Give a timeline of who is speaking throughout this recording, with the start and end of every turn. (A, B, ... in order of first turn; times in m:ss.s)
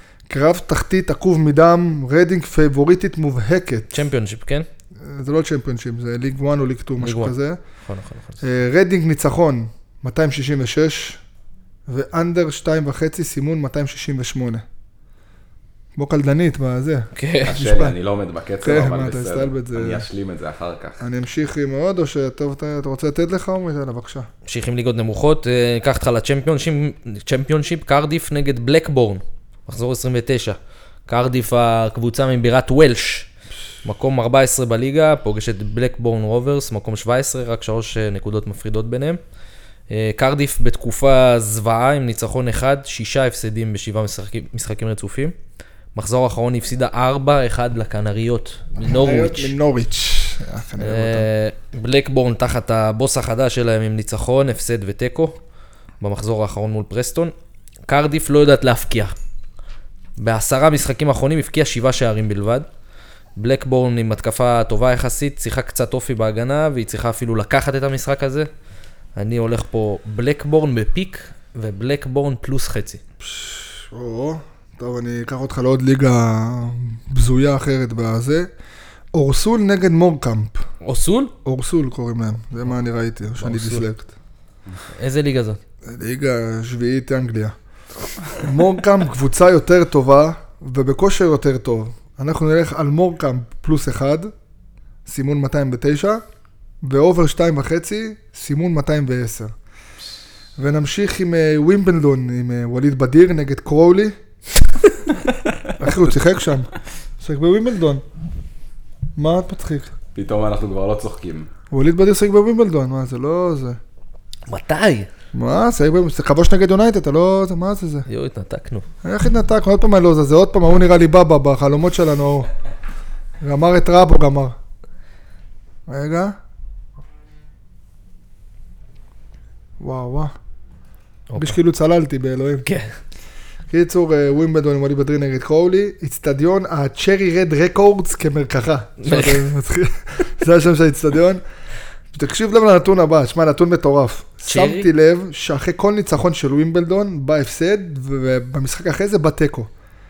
0:00.3-0:03.9 A
0:03.9-0:04.7 B
0:05.0-0:07.6 A
0:07.0-0:07.3 B
0:07.8-0:08.4 B
0:08.4-0:11.2 A
0:11.9-0:14.6 A
0:16.0-0:18.0 A
0:17.1-0:17.5 B
0:17.4-0:21.0 C
0:18.6-0:20.0 A
0:21.0-0:24.3 A
0:24.4-0:33.3 B
0:33.8-0:39.2 B
0:39.9-0:45.3 B
0:45.9-0:49.5 B
0:48.8-0:51.3 A
0:50.8-0:55.4 B
0:56.0-0:57.3 B
0:57.9-0:59.2 B
1:00.2-1:02.7 B
1:03.4-1:08.5 B
1:09.2-1:13.0 B
1:13.2-1:18.5 A
1:19.1-1:20.6 A
1:20.8-1:21.3 B
1:21.4-1:24.1 A
1:23.4-1:23.8 B
1:24.9-1:25.6 B
1:25.8-1:27.5 A
1:28.2-1:34.3 A
1:35.0-1:36.2 A
1:36.8-1:39.5 A
1:40.6-1:44.2 A
1:45.8-1:48.0 A
1:49.2-1:49.9 A
1:50.1-1:51.5 C
1:51.7-1:53.8 A
1:54.5-1:55.1 B
1:55.3-1:58.0 A
1:58.1-1:58.9 B
1:59.0-2:02.5 A
2:03.4-2:04.6 A
2:05.9-2:06.3 A
2:09.8-2:10.3 A
2:11.3-2:11.6 B
2:11.4-2:12.6 A
2:12.6-2:13.0 B
2:13.7-2:21.4 A
2:19.0-2:19.5 B
2:22.1-2:29.7 A
2:24.4-2:24.9 B